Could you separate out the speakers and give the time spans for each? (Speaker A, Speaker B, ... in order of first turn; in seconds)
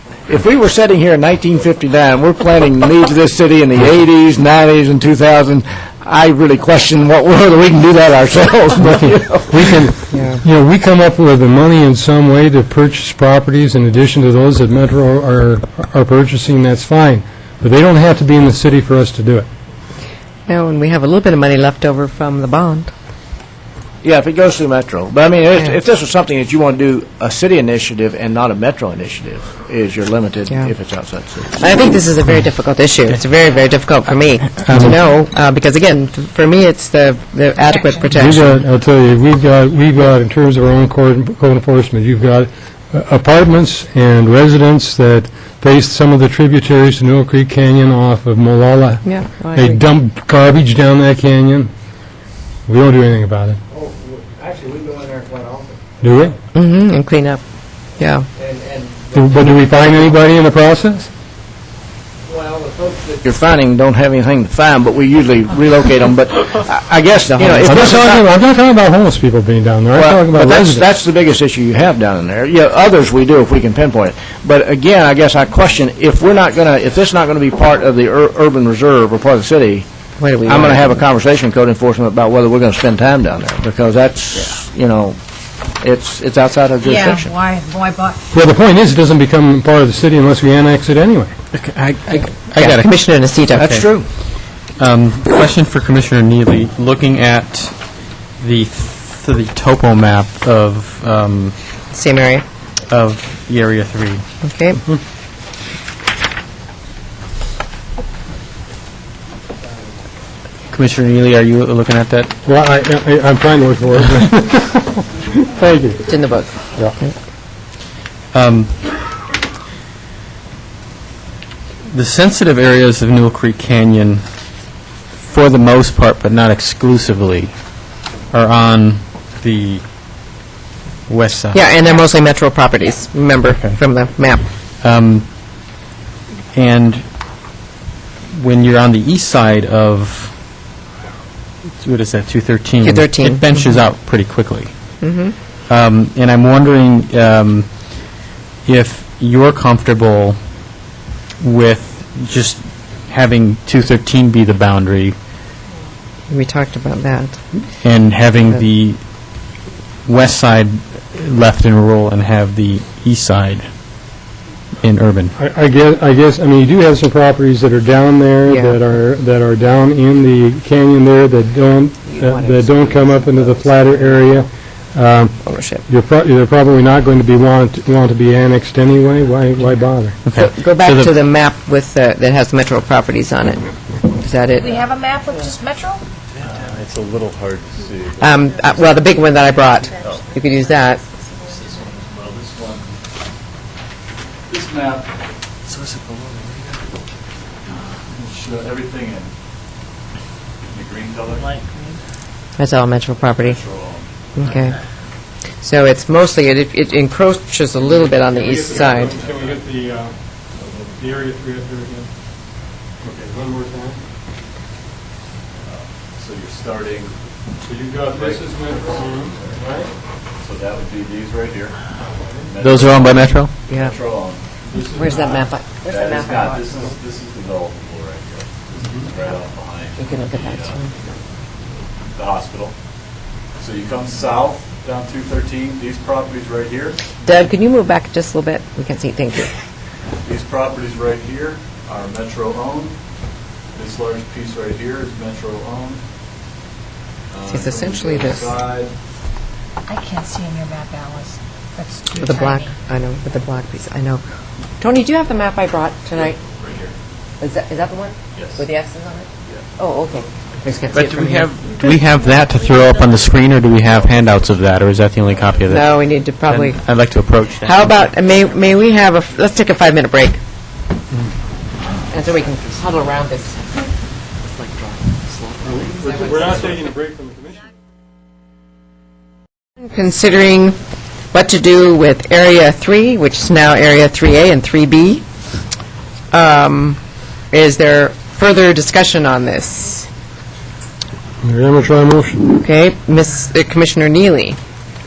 Speaker A: 0.3-9.8, 24.0-31.6, 63.2-68.2, 69.9-79.9, 80.4-85.2, 85.8-87.3, 91.5-92.3, 93.5-94.1
Speaker B: 8.8-19.5, 38.1-51.7, 52.7-53.6, 56.0-56.4, 59.1-61.1, 67.7-70.9, 88.3-91.3, 112.5-116.1, 165.4-180.2, 207.8-210.2, 211.0-212.1, 213.0-214.0, 217.6-219.9, 222.1-222.4, 224.7-225.4, 275.6-277.7, 291.4-292.5
Speaker C: 10.1-10.4, 20.5-22.9, 31.6-38.6, 49.0-49.8, 56.5-57.4, 58.0-58.3, 67.3-67.9, 80.2-81.0, 92.6-93.8, 101.9-102.4, 104.4-104.8, 116.1-117.1, 131.5-134.5, 142.8-143.4, 145.0-145.3, 156.3-157.4, 168.5-168.8, 172.1-174.4, 175.4-175.8, 180.3-184.9, 188.2-191.0, 202.6-203.6, 204.4-204.8, 205.6-209.2, 223.7-223.9, 224.9-226.9, 230.0-231.0, 237.2-239.5, 247.5-248.6, 252.2-254.2, 254.8-256.4, 257.4-261.6, 265.7-266.8, 267.6-270.4, 272.1-273.5, 276.2-276.5, 279.8-280.8, 281.3-285.2, 286.3-287.0, 287.5-290.1, 292.5-294.6
Speaker D: 34.6-35.0, 92.2-93.0, 93.5-93.9, 94.8-97.8, 98.4-101.5, 102.9-104.2, 110.7-112.3, 118.3-118.7, 121.9-124.2, 125.2-127.5, 128.3-129.8, 131.1-131.7, 133.4-133.8, 134.8-135.3, 136.5-137.0, 138.3-140.3, 141.8-144.7, 145.7-147.7, 148.7-150.4, 151.4-155.2, 157.8-159.0, 160.1-163.7, 164.8-165.3, 180.2-181.1, 222.6-223.5, 261.0-268.1
Speaker E: 37.6-38.1, 86.8-88.2, 184.6-186.0, 249.9-252.7
Speaker F: 53.7-55.8, 58.4-60.0, 62.3-63.2, 201.3-201.9, 262.5-262.8, 272.2-273.6, 274.4-276.7
Speaker G: 186.4-188.2, 191.4-192.9, 194.5-195.1, 197.7-199.3, 200.7-201.5, 203.2-204.3, 208.3-209.6, 210.6-211.0, 215.6-217.1, 218.0-219.6, 220.4-221.8, 222.4-224.4, 225.9-230.9, 232.1-232.7, 233.6-237.1, 240.2-243.0, 243.7-246.0, 247.3-248.9, 256.2-256.9, 258.4-258.6, 265.2-265.9